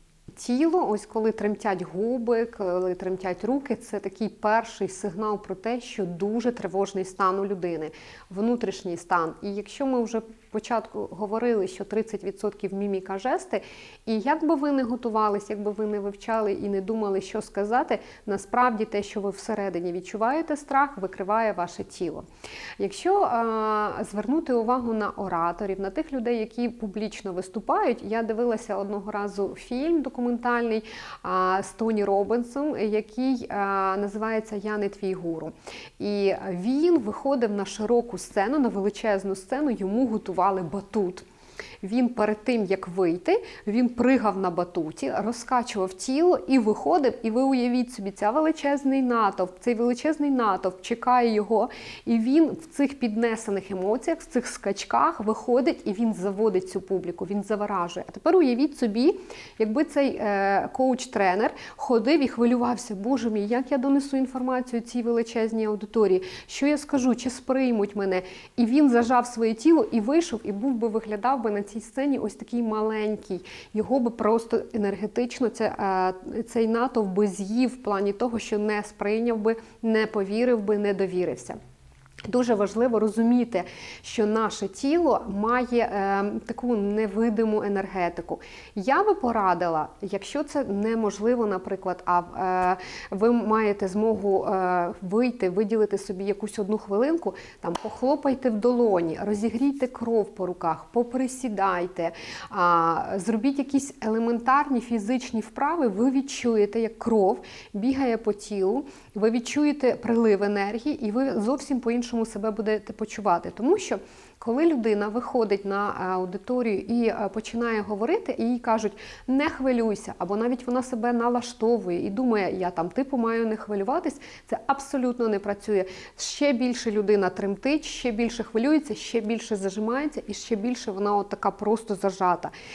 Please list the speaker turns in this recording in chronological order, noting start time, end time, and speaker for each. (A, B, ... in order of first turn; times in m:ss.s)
0:00.3-0:22.3 A
0:22.8-0:41.2 A
0:41.8-1:21.6 A
1:22.3-2:12.5 A